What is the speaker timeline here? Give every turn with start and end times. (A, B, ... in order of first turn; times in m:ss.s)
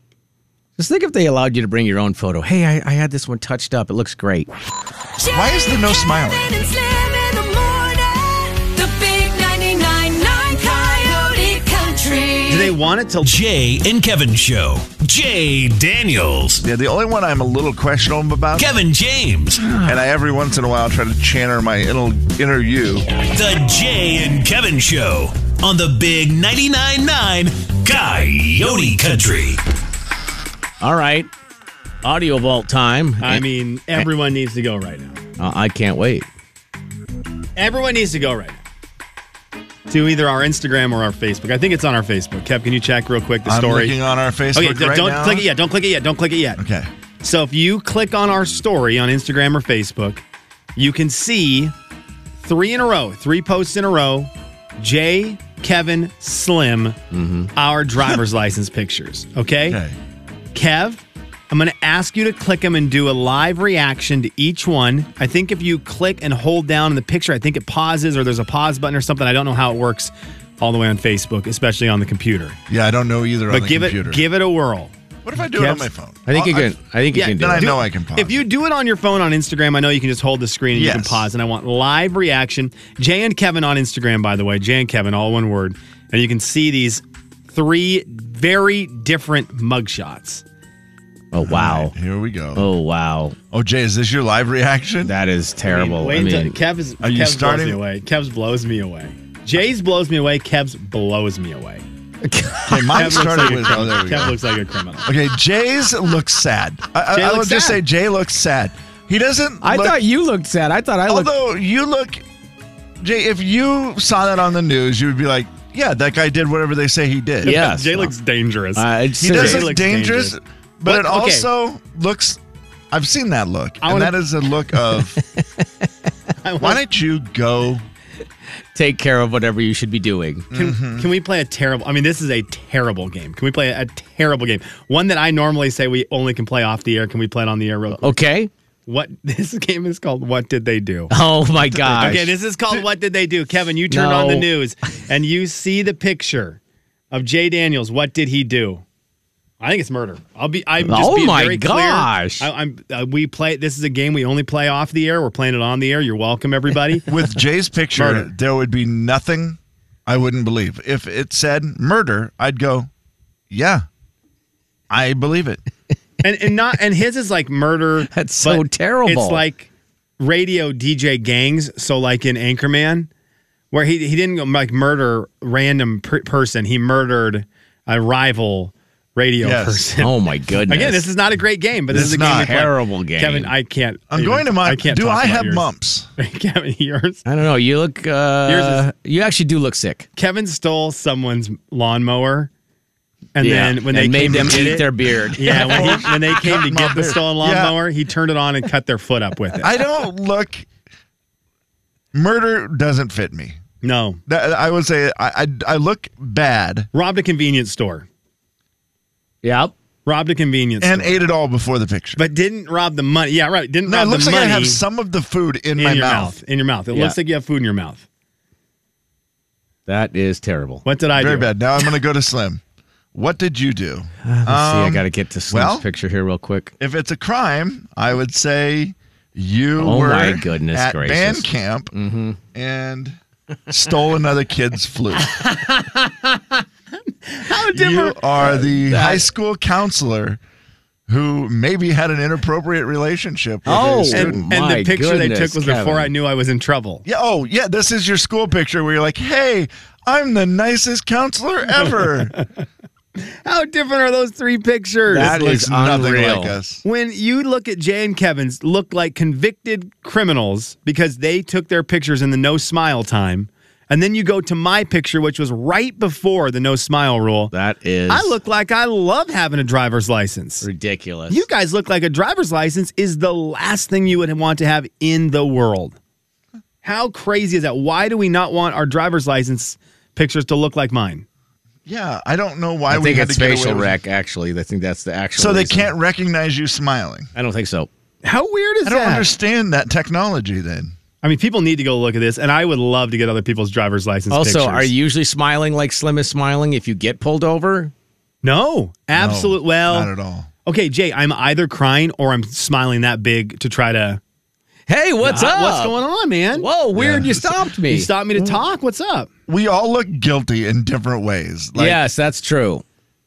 0:00.8-0:04.5 A
0:05.2-0:12.8 B
0:05.3-0:06.5 C
0:12.5-0:13.3 D
0:13.2-0:16.6 E
0:16.6-0:18.7 C
0:18.6-0:19.8 E
0:19.7-0:23.1 C
0:23.3-0:29.6 E
0:30.8-0:31.3 A
0:32.0-0:33.4 A
0:33.2-0:35.2 D
0:35.4-0:36.3 A
0:37.6-0:38.6 D
0:39.9-0:43.9 D
0:43.4-0:45.5 C
0:44.5-0:46.6 D
0:46.6-0:46.9 C
0:47.2-0:50.2 D
0:50.8-0:51.7 D
0:52.4-0:57.0 D
0:57.1-0:57.5 A
0:57.6-0:59.8 D
0:59.7-1:00.0 C
1:00.5-1:12.6 D
1:12.7-1:14.2 C
1:13.5-1:15.9 D
1:15.2-1:16.8 C
1:16.3-1:17.7 A
1:17.1-1:30.4 D
1:17.4-1:18.4 C
1:20.7-1:21.3 C
1:31.3-1:31.9 A
1:31.4-1:32.7 C
1:32.6-1:33.4 A
1:33.5-1:35.1 C
1:35.0-1:36.6 A
1:35.6-1:41.8 D
1:37.0-1:37.8 C
1:42.2-1:43.3 A
1:42.7-1:44.4 C
1:42.9-1:45.1 D
1:45.0-1:50.0 C
1:47.1-1:47.8 D
1:49.6-1:51.3 A
1:51.1-1:52.2 C
1:53.0-1:57.6 C
1:57.4-2:01.5 D
1:57.4-1:58.1 A
1:58.8-1:59.7 A
1:59.2-2:02.4 C
2:02.9-2:05.2 C
2:03.8-2:04.2 D
2:06.4-2:06.8 D
2:06.6-2:07.8 C
2:08.8-2:10.5 A
2:10.5-2:11.1 C
2:10.5-2:18.2 D
2:17.9-2:18.5 A
2:18.9-2:21.1 D
2:21.1-2:22.3 A
2:21.7-2:22.8 C
2:21.9-2:26.6 D
2:23.9-2:24.5 A
2:27.1-2:28.8 D
2:29.6-2:37.1 D
2:30.8-2:32.4 A
2:37.1-2:42.9 C
2:37.9-2:38.3 D
2:43.5-2:43.8 C
2:44.9-2:45.6 C
2:46.2-2:53.1 D
2:48.1-2:49.4 A
2:53.7-3:00.2 D
2:59.4-2:59.8 C
3:00.0-3:01.1 A
3:00.7-3:07.2 D
3:01.9-3:02.7 C
3:02.2-3:03.5 A
3:04.1-3:06.1 C
3:07.3-3:10.1 A
3:08.4-3:08.9 D
3:10.2-3:12.5 D
3:13.4-3:19.7 D
3:13.4-3:16.1 A
3:15.4-3:17.8 C
3:19.6-3:20.7 C
3:22.1-3:23.6 C
3:23.8-3:24.2 D
3:24.3-3:26.9 C
3:26.9-3:28.1 D
3:29.4-3:29.7 A
3:30.1-3:31.2 D
3:30.8-3:32.2 C
3:32.2-3:34.8 D
3:33.9-3:36.4 C
3:35.8-3:38.0 D
3:39.9-3:40.8 A
3:40.8-3:41.5 D
3:41.1-3:42.6 C
3:43.1-3:45.9 C
3:44.3-3:46.7 A
3:46.8-3:51.9 C
3:49.8-3:52.4 A
3:52.5-3:53.2 C
3:53.7-3:55.3 C
3:55.4-3:56.4 D
3:57.3-3:59.2 D
3:57.7-4:00.4 C
3:58.9-3:59.2 A
4:01.1-4:04.4 C
4:03.6-4:06.1 A
4:04.1-4:07.0 D
4:07.0-4:12.4 C
4:13.4-4:15.4 D
4:15.1-4:16.6 A
4:15.1-4:16.8 C
4:16.8-4:27.5 D
4:27.5-4:28.3 A
4:28.1-4:30.6 D
4:30.6-4:31.4 A
4:31.3-4:36.0 D
4:36.8-4:41.2 D
4:41.9-4:44.0 C
4:42.9-4:45.9 A
4:45.4-4:47.3 C
4:47.4-4:47.9 A
4:48.2-4:49.3 D
4:48.8-4:50.9 C
4:51.2-4:54.9 D
4:54.3-4:57.9 A
4:58.4-5:00.1 D
4:59.1-5:00.5 C
5:00.6-5:04.2 D
5:04.9-5:06.0 A
5:05.2-5:06.7 D
5:06.6-5:08.1 A
5:07.0-5:07.4 C
5:07.9-5:09.3 D
5:09.5-5:12.0 C
5:11.8-5:12.8 A